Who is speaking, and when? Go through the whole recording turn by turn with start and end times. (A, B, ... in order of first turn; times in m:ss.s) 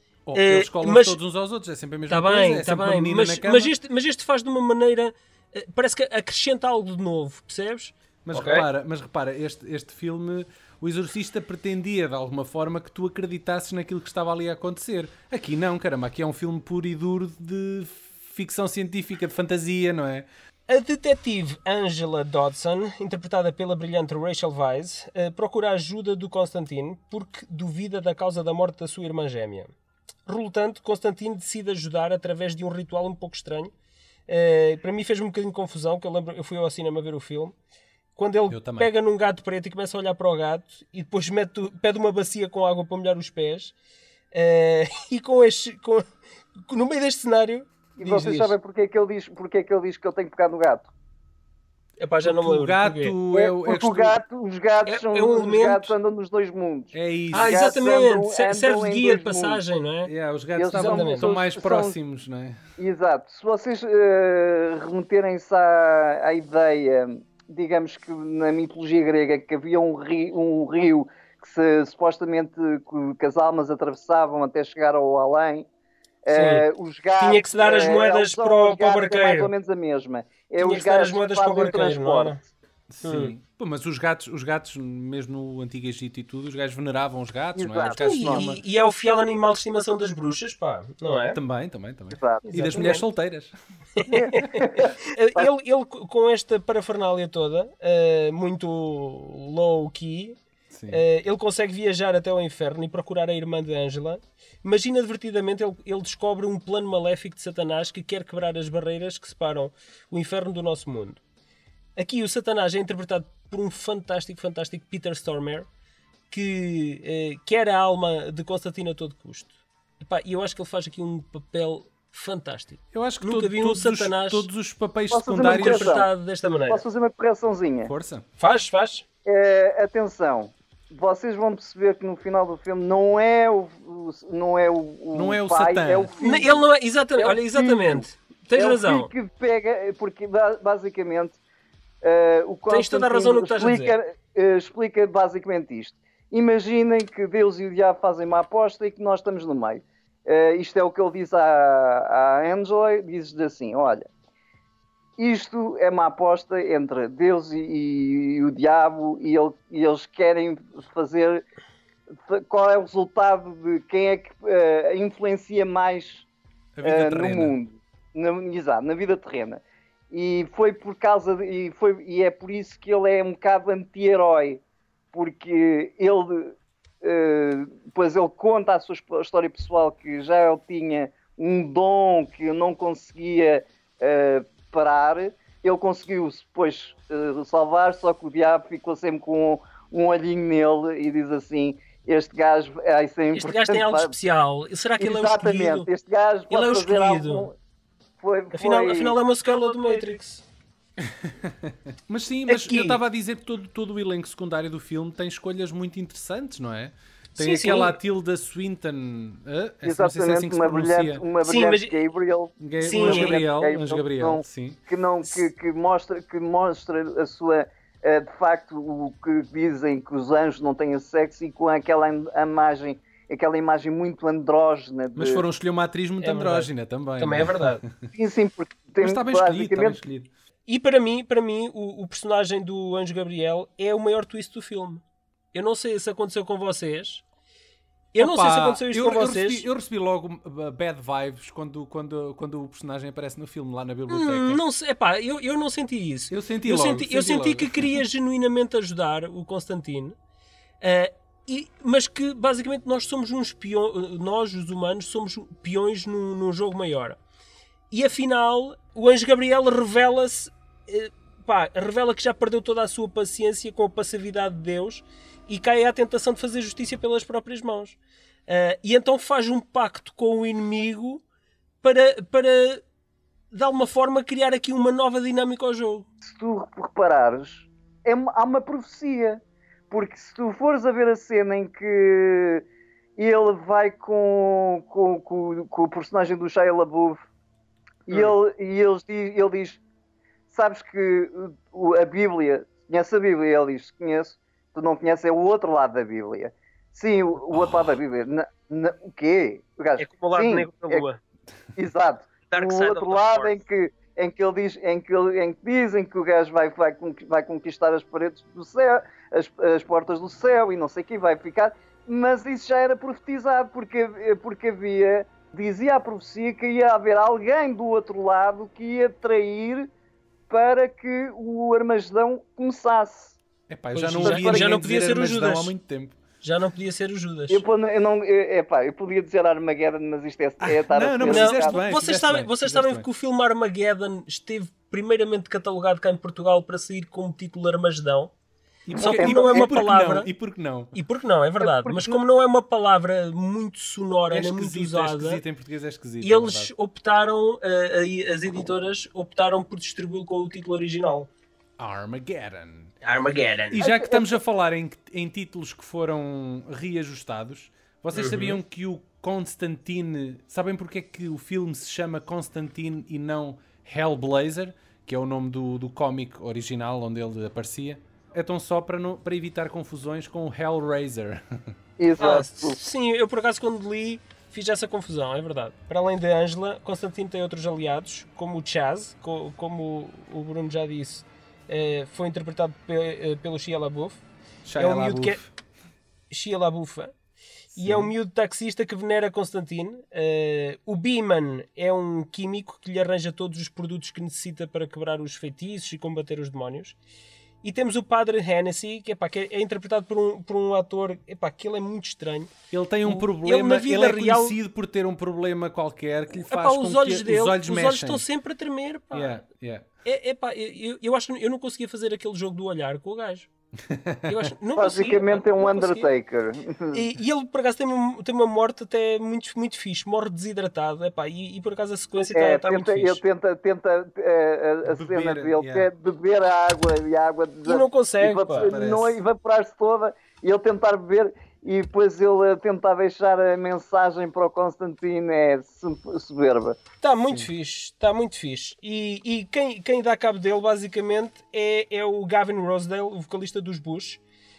0:00.3-0:03.7 A
0:00.3-0:01.2 B
0:02.1-0:08.7 B
0:08.3-0:20.3 A
0:20.7-0:29.7 B
0:30.3-0:33.7 B
0:34.3-0:37.6 B
0:38.2-0:43.7 B
0:38.5-0:38.9 A
0:44.3-0:46.0 B
0:46.7-0:48.6 B
0:48.0-0:50.9 C
0:52.0-0:53.2 B
0:52.2-0:54.2 A
0:53.3-0:59.6 C
0:54.9-0:55.9 B
0:56.9-0:57.8 A
0:57.3-1:00.1 B
1:00.1-1:02.6 A
1:00.6-1:02.0 C
1:00.7-1:01.3 B
1:02.8-1:15.7 C
1:16.2-1:22.5 C
1:16.3-1:16.7 B
1:17.2-1:19.5 B
1:20.6-1:22.4 B
1:22.9-1:28.6 A
1:23.0-1:23.4 B
1:27.6-1:28.4 C
1:28.0-1:31.4 B
1:31.3-1:33.5 A
1:32.2-1:32.4 C
1:32.4-1:33.0 B
1:34.0-1:51.2 B
1:34.1-1:34.5 A
1:34.2-1:35.5 C
1:40.7-1:41.0 A
1:52.0-1:55.7 B
1:56.3-2:04.5 B
2:02.9-2:06.0 A
2:05.1-2:06.1 C
2:05.4-2:06.8 B
2:06.7-2:07.9 C
2:07.8-2:08.2 A
2:08.4-2:09.0 B
2:09.3-2:16.6 C
2:15.1-2:16.1 A
2:16.2-2:19.1 B
2:17.2-2:18.0 C
2:18.6-2:21.4 C
2:22.0-2:34.1 C
2:22.7-2:24.0 B
2:35.2-2:41.4 C
2:42.3-2:46.3 C
2:46.8-2:47.6 A
2:46.8-2:54.6 C
2:55.1-3:14.1 C
3:13.3-3:15.9 B
3:15.0-3:17.6 C
3:16.5-3:17.5 B
3:18.2-3:19.2 C
3:18.5-3:20.4 B
3:21.0-3:31.2 A
3:22.5-3:23.0 B
3:27.4-3:28.0 B
3:29.8-3:45.4 C
3:31.4-3:32.0 B
3:32.6-3:34.8 A
3:32.8-3:33.4 B
3:45.2-3:48.1 A
3:46.2-3:47.8 B
3:48.1-3:50.0 C
3:49.0-3:50.3 A
3:50.7-3:55.0 B
3:55.5-3:57.2 B
3:58.1-3:59.7 B
3:58.2-4:04.6 A
4:04.1-4:10.2 B
4:06.3-4:08.0 A
4:10.8-4:17.2 B
4:17.9-4:31.2 B
4:31.8-4:32.8 B
4:33.5-4:36.1 B
4:36.2-4:42.6 C
4:43.2-4:47.2 C
4:48.1-4:49.8 C
4:50.5-5:01.0 C
4:57.5-4:58.0 A
5:00.0-5:01.2 B
5:01.8-5:19.9 C
5:02.5-5:03.5 B
5:20.5-5:23.4 C
5:23.7-5:26.2 A
5:23.9-5:25.7 B
5:24.2-5:24.8 C
5:26.4-5:27.6 B
5:27.5-5:31.8 C
5:30.6-5:33.0 A
5:31.2-5:38.3 B
5:38.9-5:41.0 A
5:39.0-5:40.3 B
5:39.0-5:39.7 C
5:40.9-5:45.4 B
5:41.6-5:42.2 C
5:44.3-5:46.7 A
5:46.2-5:51.3 B
5:51.8-5:53.0 A
5:53.0-5:53.9 B
5:53.7-6:11.8 A
5:53.8-5:54.3 C
5:58.1-5:58.6 B
6:12.0-6:12.8 C
6:12.2-6:24.2 B
6:24.6-6:25.5 A
6:24.8-6:25.4 B
6:26.3-6:27.1 B
6:27.7-6:37.0 B
6:27.8-6:28.1 A
6:37.6-6:44.6 B
6:42.7-6:48.2 A
6:46.4-6:49.4 B
6:49.1-6:49.9 A
6:50.0-6:53.5 B
6:53.8-6:54.5 A
6:54.3-6:56.1 B
6:54.8-6:57.1 C
6:56.9-7:03.2 B
7:02.3-7:16.8 C
7:04.8-7:05.9 A
7:07.6-7:08.7 B
7:08.6-7:09.2 A
7:17.0-7:24.2 B